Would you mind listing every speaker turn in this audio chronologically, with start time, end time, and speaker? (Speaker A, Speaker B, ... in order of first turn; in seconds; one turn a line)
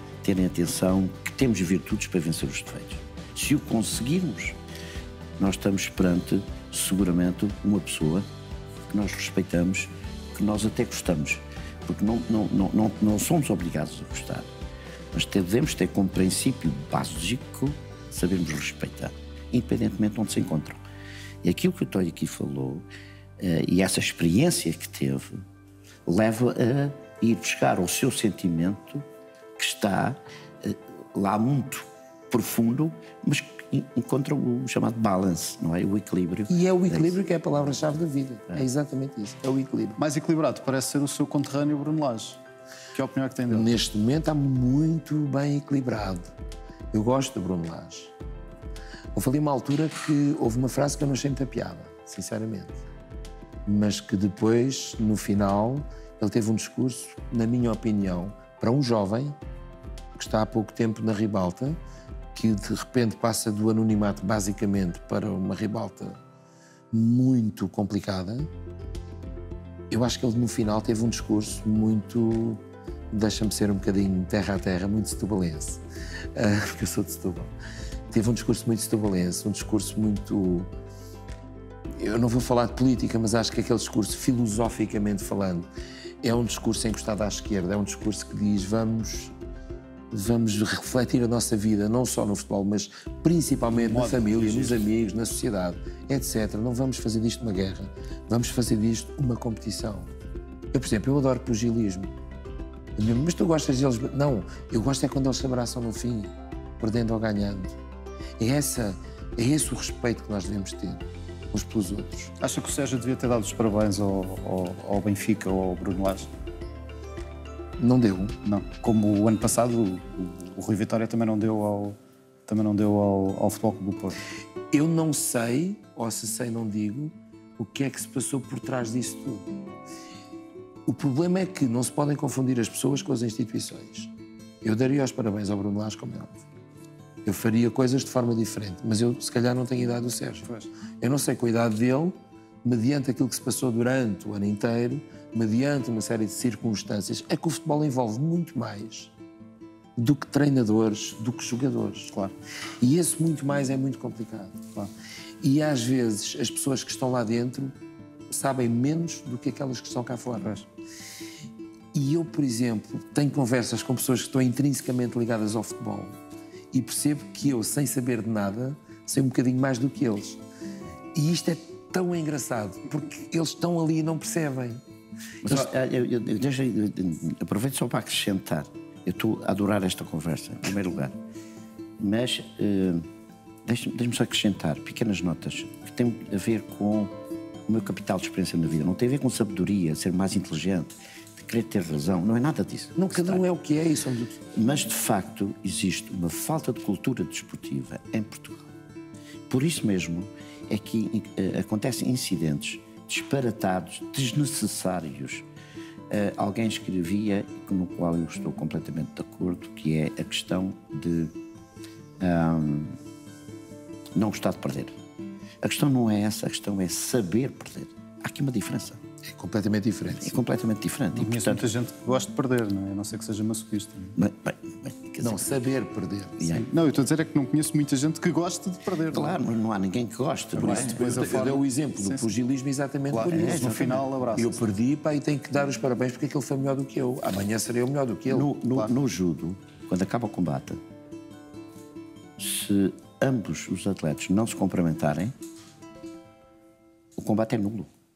Speaker A: 0.2-4.6
Speaker A: 5.4-8.3
Speaker A: 8.9-14.5
Speaker A: 15.1-20.8
Speaker A: 21.4-22.9
Speaker A: 23.4-25.5
Speaker A: 26.1-29.1
Speaker A: 29.6-37.1
Speaker B: 36.5-40.0
Speaker C: 40.0-42.4
Speaker C: 42.9-43.7
Speaker B: 43.5-46.3
Speaker B: 46.9-48.1
Speaker B: 49.1-52.8
Speaker B: 53.7-59.4
Speaker B: 60.2-61.8
Speaker B: 62.3-66.2
Speaker B: 66.9-68.5
Speaker B: 69.9-75.8
Speaker B: 76.3-77.5
Speaker B: 78.1-80.7
Speaker B: 81.9-85.7
Speaker B: 86.2-89.3
Speaker B: 90.1-100.1
Speaker C: 93.7-94.8
Speaker B: 100.7-102.1
Speaker B: 103.0-107.8
Speaker B: 108.4-112.3
Speaker C: 112.4-116.3
Speaker B: 117.8-118.4
Speaker C: 118.5-124.2
Speaker B: 124.7-129.6
Speaker B: 130.9-134.1
Speaker B: 134.6-136.4
Speaker B: 137.2-140.5
Speaker B: 141.0-149.1
Speaker B: 150.0-152.1
Speaker B: 152.8-154.7
Speaker B: 155.4-157.8
Speaker B: 158.3-160.6
Speaker B: 161.9-166.2
Speaker B: 166.7-170.4
Speaker B: 171.1-174.8
Speaker A: 175.4-181.2
Speaker B: 175.4-175.7
Speaker A: 182.0-183.1
Speaker A: 183.7-187.1
Speaker A: 187.7-193.4
Speaker B: 193.0-194.4
Speaker A: 194.5-198.7
Speaker A: 199.5-205.5
Speaker A: 206.1-211.3
Speaker A: 212.2-213.0
Speaker A: 214.2-215.0
Speaker A: 215.6-219.0
Speaker B: 219.2-220.4
Speaker A: 220.2-221.7
Speaker C: 221.1-224.2
Speaker A: 224.2-225.6
Speaker B: 225.2-226.5
Speaker A: 226.4-226.7
Speaker C: 226.5-229.4
Speaker A: 229.1-231.3
Speaker B: 230.6-238.5
Speaker C: 230.6-232.3
Speaker C: 233.1-234.6
Speaker A: 233.2-234.0
Speaker A: 238.3-240.8
Speaker A: 242.4-245.3
Speaker A: 247.2-247.9